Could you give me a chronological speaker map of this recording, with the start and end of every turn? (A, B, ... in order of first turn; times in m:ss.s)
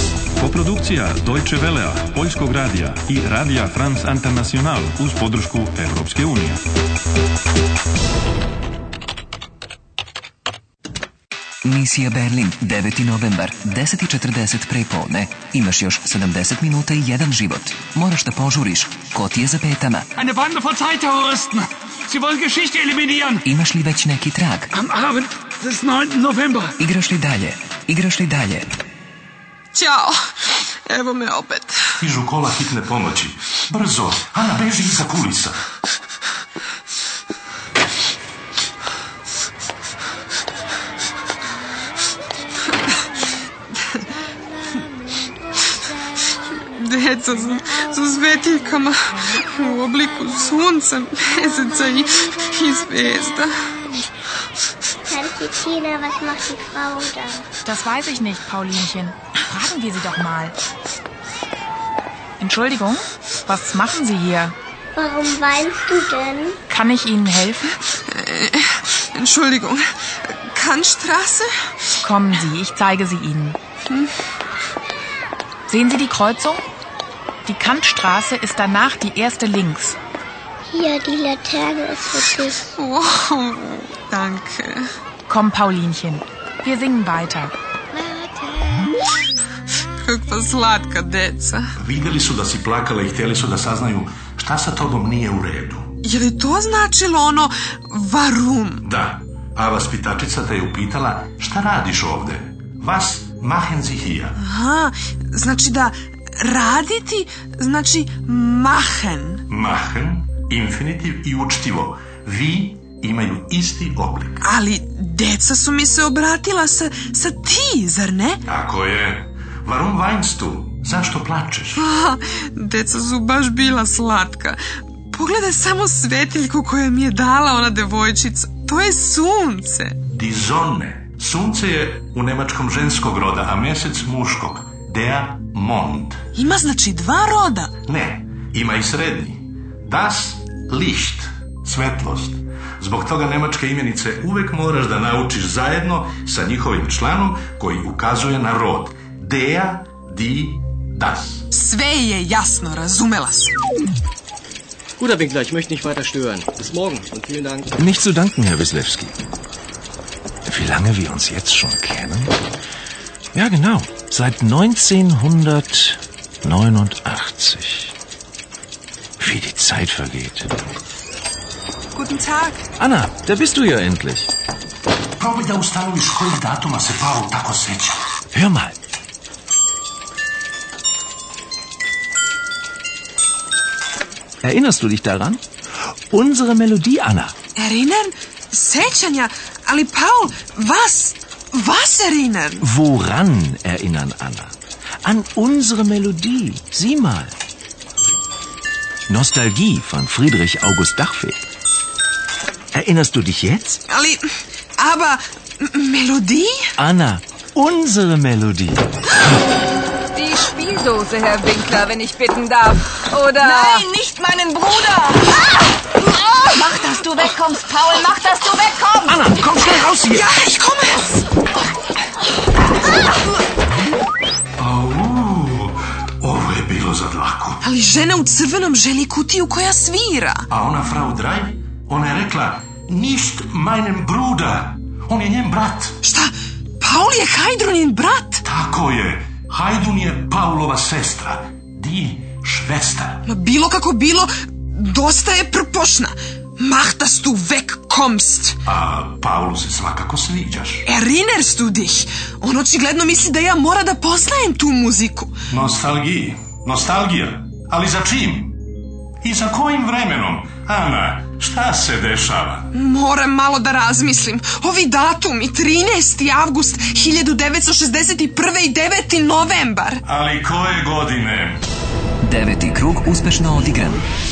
0:00.4-0:06.6 A
0:11.6-0:20.1 B
0:20.4-0:23.2 C
0:23.4-0:24.7 B
0:25.0-0:26.2 C
0:26.8-0:28.7 B
0:29.7-0:30.2 D
0:30.9-0:31.8 D
0:32.0-0:35.6 E
0:46.6-0:53.7 D
0:55.0-0:57.4 F
0:57.6-1:00.6 G
1:02.4-1:04.5 G
1:04.9-1:06.6 F
1:06.7-1:07.8 G
1:08.1-1:09.8 D
1:10.5-1:11.5 D
1:12.0-1:13.6 G
1:15.7-1:16.6 G
1:17.4-1:20.0 G
1:20.7-1:22.7 F
1:22.8-1:24.8 D
1:25.3-1:27.5 G
1:30.0-1:31.7 D
1:31.8-1:35.9 E
1:36.0-1:38.8 D
1:38.8-1:44.4 E
1:44.4-1:49.4 D
1:49.5-1:54.4 E
1:54.4-1:58.4 D
1:58.5-2:01.8 E
2:01.8-2:04.6 D
2:05.1-2:10.0 D
2:10.1-2:16.2 E
2:16.3-2:17.7 D
2:17.8-2:31.5 E
2:31.5-2:33.5 D
2:35.0-2:37.7 H
2:37.8-2:39.1 I
2:40.4-2:42.3 I
2:43.3-2:47.9 I
2:49.2-2:50.5 I
2:51.9-2:52.7 D
2:52.8-2:54.3 I
2:55.2-2:58.0 E
2:58.3-2:58.7 I
3:04.4-3:05.4 I
3:06.1-3:07.3 I
3:07.6-3:12.6 D
3:12.6-3:17.3 I
3:19.1-3:21.4 I
3:22.7-3:23.8 I
3:23.9-3:24.2 D
3:24.8-3:26.6 D
3:26.8-3:28.9 I
3:30.1-3:33.8 J
3:34.5-3:35.0 J
3:36.5-3:39.1 J
3:39.0-3:40.3 I
3:40.1-3:41.2 D
3:44.6-3:47.6 E
3:47.6-3:50.4 D
3:50.5-3:56.0 E
3:56.0-3:58.4 D
3:58.4-4:03.2 E
4:03.2-4:08.6 D
4:08.6-4:10.8 E
4:10.8-4:15.3 D
4:15.5-4:18.6 E
4:19.2-4:22.7 E
4:22.7-4:30.0 D
4:30.1-4:31.6 E
4:32.2-4:34.0 B